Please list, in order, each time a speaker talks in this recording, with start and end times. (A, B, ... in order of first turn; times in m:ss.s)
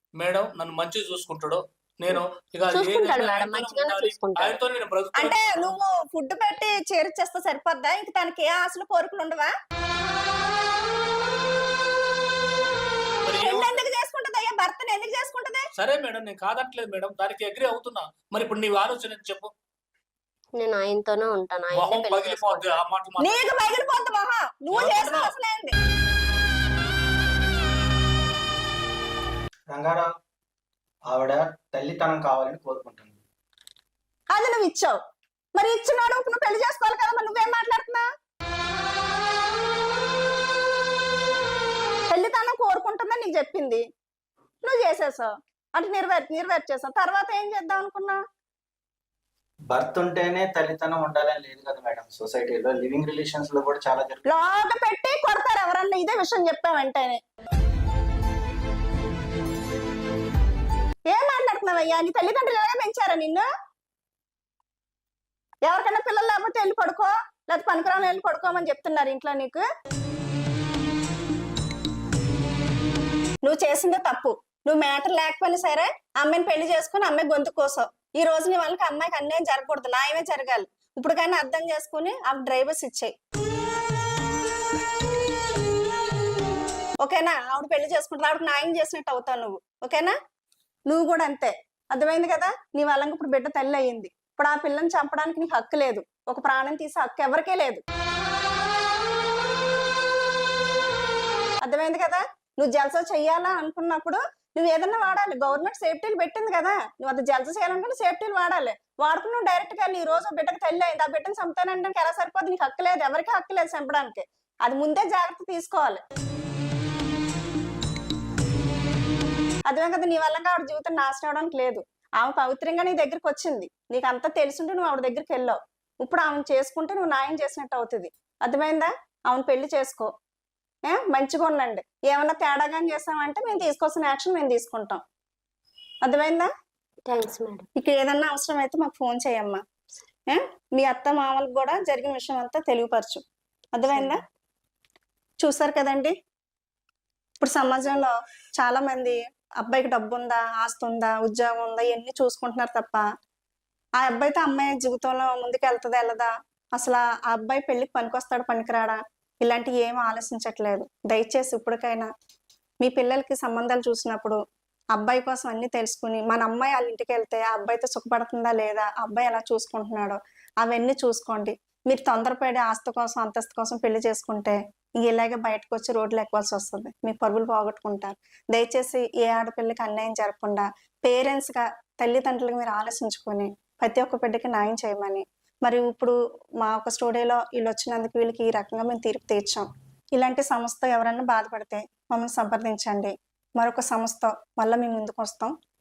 0:00.2-0:05.4 A
0:02.7-0:04.6 B
0:05.2-0:09.5 C
0:13.2-0:13.8 A
0:13.4-0:15.6 C
0:15.8-0:19.5 A
0:20.6-0:22.8 B
0:21.7-0:23.4 A
0:23.2-0:25.7 C
0:24.7-0:25.3 A
0:29.7-0:30.1 D
0:31.1-0:33.2 D
0:34.3-0:35.0 C
0:35.6-0:38.0 C
0:42.1-0:43.8 C
0:44.6-0:48.2 C
0:49.7-0:54.4 D
0:54.2-0:57.2 C
1:01.1-1:03.4 C
1:05.6-1:09.6 C
1:13.4-1:23.1 C
1:27.0-1:30.1 C
1:30.9-1:37.8 C
1:41.6-1:56.0 C
1:59.7-2:10.1 C
2:10.9-2:15.0 C
2:16.0-2:16.5 C
2:17.1-2:17.6 B
2:17.8-2:19.6 C
2:20.3-2:23.2 C
2:23.7-2:24.2 C
2:23.9-2:24.2 B
2:25.4-2:26.1 C
2:27.4-2:33.0 C
2:34.0-2:42.1 C
2:42.8-2:44.4 C
2:44.9-3:15.5 C